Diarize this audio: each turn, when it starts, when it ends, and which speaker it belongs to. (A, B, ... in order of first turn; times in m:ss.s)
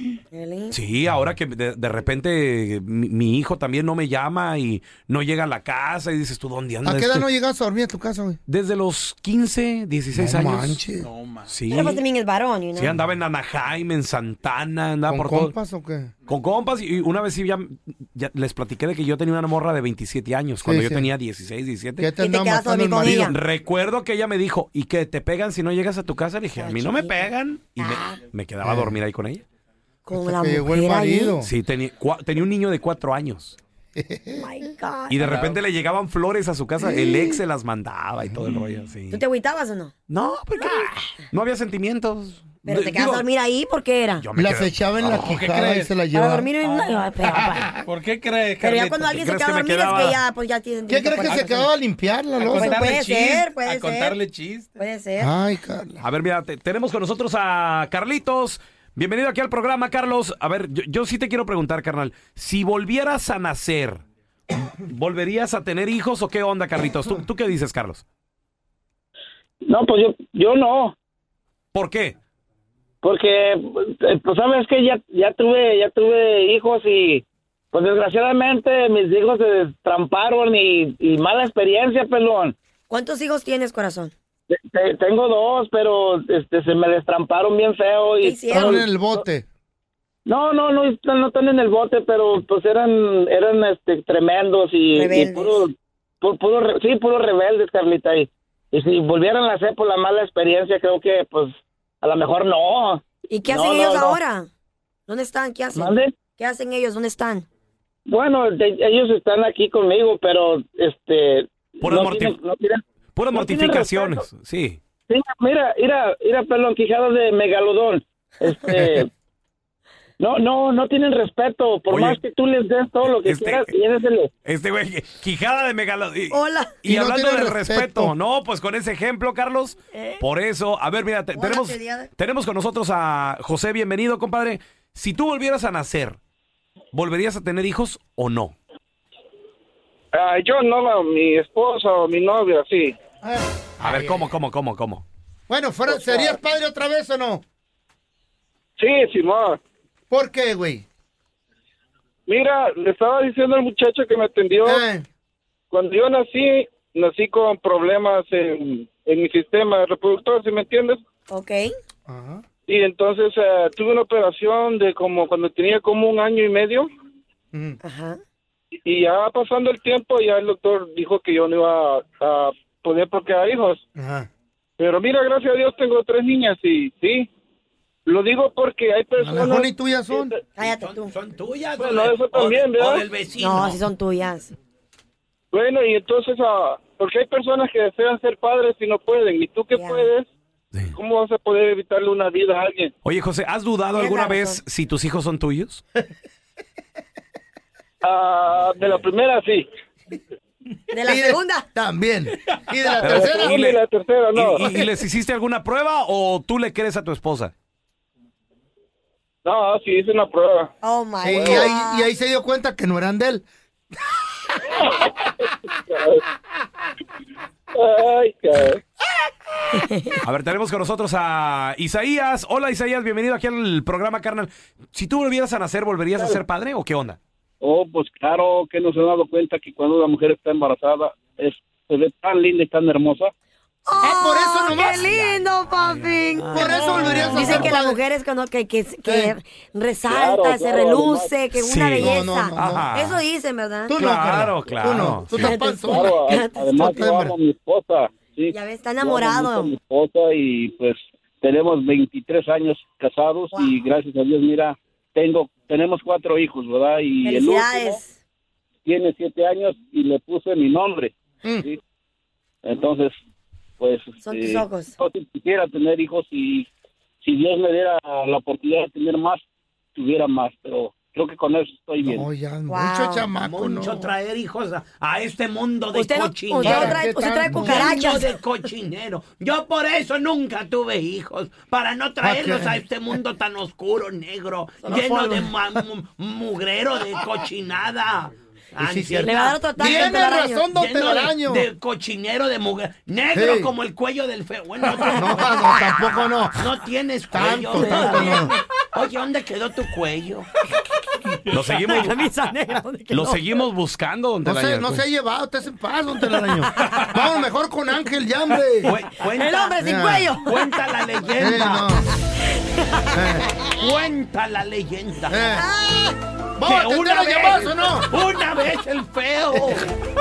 0:00.3-0:00.8 A
0:00.7-0:07.3 B
0:06.8-0:08.4 C
0:08.5-0:10.8 B
0:10.1-0:11.1 C
0:11.0-0:11.6 D
0:11.5-0:12.0 B
0:11.7-0:12.9 A
0:12.8-0:15.6 B
0:15.1-0:16.1 C
0:16.3-0:22.1 B
0:20.6-0:21.1 C
0:22.0-0:23.3 C
0:22.2-0:23.3 A
0:23.1-0:29.4 B
0:26.6-0:27.2 A
0:27.8-0:28.2 A
0:28.6-0:28.9 C
0:30.1-0:31.4 A
0:30.1-0:31.5 C
0:31.4-0:33.6 B
0:34.0-0:34.5 C
0:34.4-0:35.3 A
0:35.1-0:39.2 B
0:35.3-0:35.6 D
0:36.8-0:37.4 C
0:38.2-0:38.7 C
0:39.1-0:39.9 A
0:40.1-0:43.3 B
0:42.6-0:44.3 A
0:44.2-0:45.4 B
0:44.3-0:46.6 C
0:45.3-0:45.9 D
0:46.1-0:47.7 A
0:46.6-0:49.2 D
0:47.3-0:47.9 C
0:48.6-0:51.7 A
0:49.1-0:50.2 B
0:50.9-0:52.6 C
0:52.4-0:54.7 D
0:52.6-0:54.2 A
0:54.8-0:55.3 A
0:55.2-0:56.0 C
0:56.0-1:04.0 B
1:04.8-1:08.0 B
1:09.6-1:10.9 E
1:11.7-1:12.2 B
1:13.0-1:22.6 E
1:22.9-1:24.1 A
1:24.5-1:28.9 E
1:28.2-1:28.7 A
1:28.5-1:29.4 C
1:30.2-1:35.7 E
1:34.9-1:35.7 A
1:36.2-1:44.2 E
1:43.3-1:44.5 A
1:45.1-1:47.4 A
1:45.8-1:46.1 E
1:48.1-1:52.8 E
1:51.8-1:52.4 B
1:53.1-1:54.8 B
1:53.3-1:54.0 E
1:55.1-1:59.1 E
2:00.2-2:04.3 E
2:01.9-2:02.2 B
2:03.1-2:03.7 B
2:04.4-2:16.2 B
2:06.3-2:06.9 A
2:06.9-2:08.1 C
2:09.9-2:10.2 A
2:11.3-2:12.1 A
2:16.9-2:18.6 B
2:20.1-2:22.9 F
2:23.2-2:24.3 C
2:23.8-2:25.0 B
2:25.5-2:27.4 C
2:25.9-2:26.4 F
2:28.8-2:29.6 F
2:30.1-2:30.8 C
2:32.3-2:34.8 F
2:34.6-2:35.0 C
2:35.7-2:41.0 F
2:41.3-2:41.7 A
2:42.1-2:42.4 C
2:42.7-2:46.9 F
2:47.5-2:47.8 C
2:47.8-2:48.2 A
2:48.9-2:53.8 F
2:53.9-2:54.3 C
2:54.8-2:57.3 F
2:58.1-3:00.4 F
2:59.2-3:00.4 C
3:00.6-3:01.1 A
3:00.6-3:03.8 G
3:01.8-3:03.1 F
3:03.4-3:04.5 A
3:05.5-3:10.2 F
3:09.7-3:10.1 A
3:10.9-3:12.9 F
3:13.0-3:15.8 B
3:13.9-3:14.6 A
3:18.0-3:19.7 F
3:20.9-3:21.7 A
3:21.0-3:23.6 C
3:23.0-3:23.8 B
3:23.1-3:24.8 F
3:24.3-3:27.5 B
3:29.4-3:30.7 F
3:30.8-3:32.1 A
3:31.2-3:33.4 C
3:31.3-3:31.7 F
3:35.9-3:36.2 F
3:37.8-3:38.8 F
3:39.8-3:40.2 A
3:40.2-3:47.2 B
3:47.6-3:53.3 F
3:53.8-4:04.0 A
3:54.0-3:55.3 C
3:56.3-3:57.7 B
3:56.5-3:58.0 C
3:59.0-3:59.3 C
4:00.2-4:01.4 F
4:01.6-4:03.2 B
4:02.0-4:02.9 C
4:03.9-4:06.2 C
4:04.0-4:05.6 B
4:05.3-4:17.9 F
4:05.3-4:06.9 A
4:06.8-4:07.4 C
4:08.5-4:09.7 A
4:17.2-4:18.1 A
4:18.8-4:21.1 F
4:21.4-4:21.7 C
4:22.6-4:23.1 F
4:23.8-4:26.7 F
4:24.2-4:25.0 A
4:27.2-4:29.4 F
4:30.0-4:32.2 F
4:32.0-4:34.1 C
4:32.7-4:33.3 A
4:33.4-4:50.0 G
4:35.9-4:38.4 A
4:36.6-4:37.9 C
4:42.2-4:42.8 C
4:45.0-4:45.8 C
4:47.1-4:47.4 C
4:48.8-4:51.7 C
4:49.2-4:50.7 A
4:50.7-4:58.3 G
4:53.3-4:53.7 C
4:55.0-4:55.9 A
4:55.2-4:56.6 C
4:57.3-4:58.5 C
4:57.8-4:58.6 A
4:58.9-5:00.5 G
5:01.5-5:02.1 B
5:01.6-5:03.6 A
5:03.1-5:05.0 B
5:04.4-5:08.9 C
5:06.6-5:07.1 A
5:08.8-5:10.9 A
5:08.9-5:12.0 G
5:09.8-5:10.3 C
5:11.4-5:12.0 C
5:12.8-5:13.7 A
5:13.1-5:13.9 C
5:13.7-5:15.4 G
5:15.3-5:15.7 C
5:15.3-5:16.2 A
5:16.6-5:18.1 C
5:16.6-5:19.9 G
5:19.5-5:19.8 C